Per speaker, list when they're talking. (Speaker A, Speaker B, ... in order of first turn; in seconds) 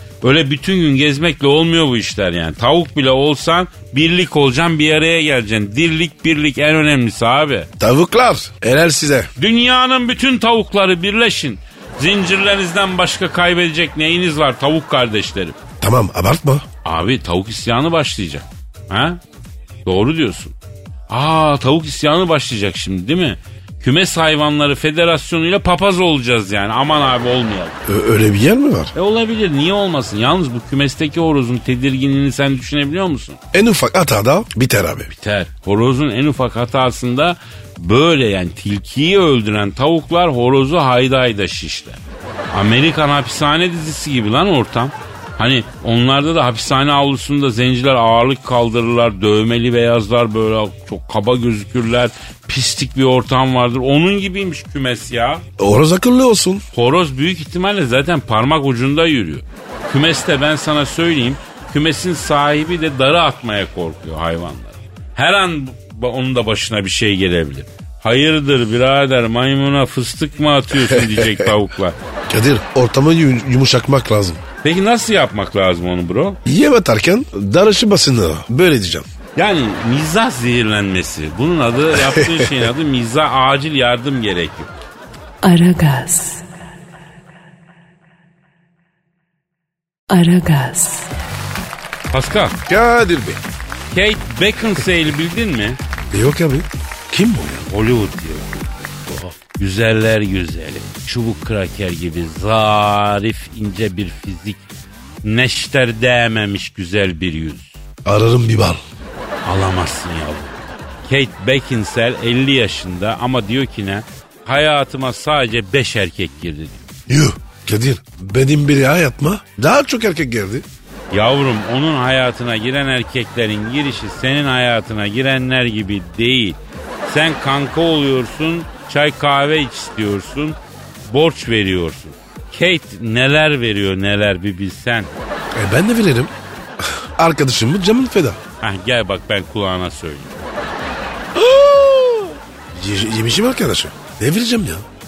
Speaker A: 0.2-7.7, 9.4-15.6, 16.8-19.2, 19.9-20.5, 21.1-27.8, 28.9-33.4, 35.1-42.0, 42.5-55.4, 56.7-72.0, 74.6-76.4, 79.3-84.7, 92.1-92.6, 93.9-95.8, 97.7-98.7, 99.5-104.6, 105.2-107.7, 109.4-116.8, 121.1-135.1, 138.6-140.3
Speaker B: 7.8-9.3, 15.8-16.6, 27.9-28.9, 33.5-35.1, 55.6-56.6, 72.3-74.4, 76.4-79.1, 82.0-82.6, 92.7-93.4, 96.1-97.6, 108.0-108.8, 117.1-120.6, 135.5-138.4, 141.3-144.8
Speaker C: 85.4-86.4, 90.1-91.1